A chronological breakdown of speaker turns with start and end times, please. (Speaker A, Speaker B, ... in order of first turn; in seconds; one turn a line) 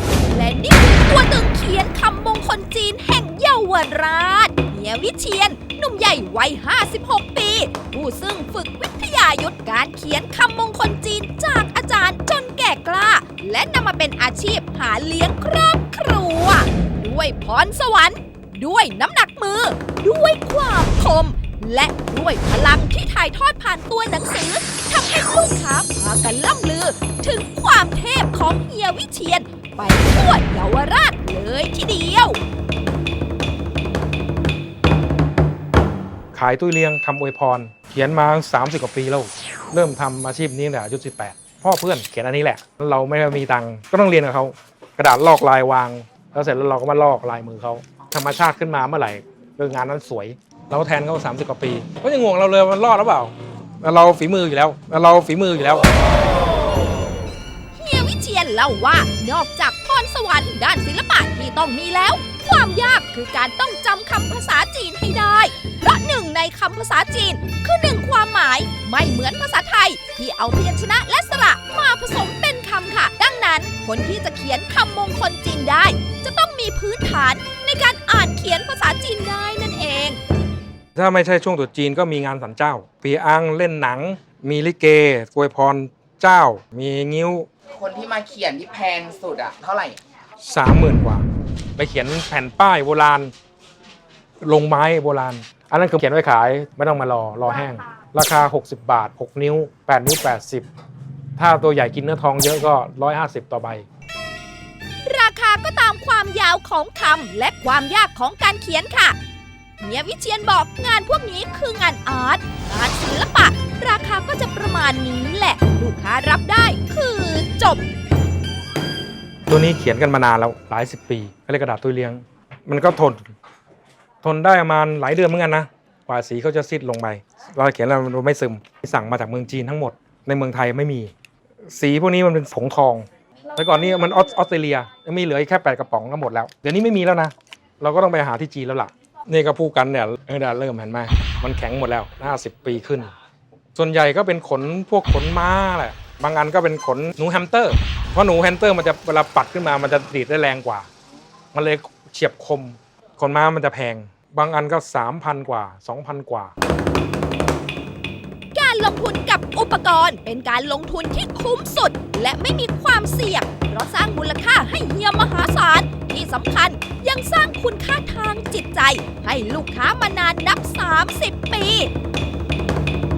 Speaker A: 0.3-32.4
Speaker B: 36.3-55.9
Speaker A: 57.8-80.2
Speaker B: 81.0-87.5
Speaker C: 87.7-90.0
Speaker B: 90.5-91.2
Speaker B: 91.8-93.3
Speaker B: 94.4-100.7
Speaker B: 101.4-103.8
Speaker A: 105.0-109.2
Speaker A: 109.8-117.8
Speaker B: 119.5-123.3
Speaker B: 124.2-131.1
Speaker B: 131.6-143.1
Speaker B: 143.8-150.9
Speaker B: 151.5-156.5
Speaker A: 158.5-171.9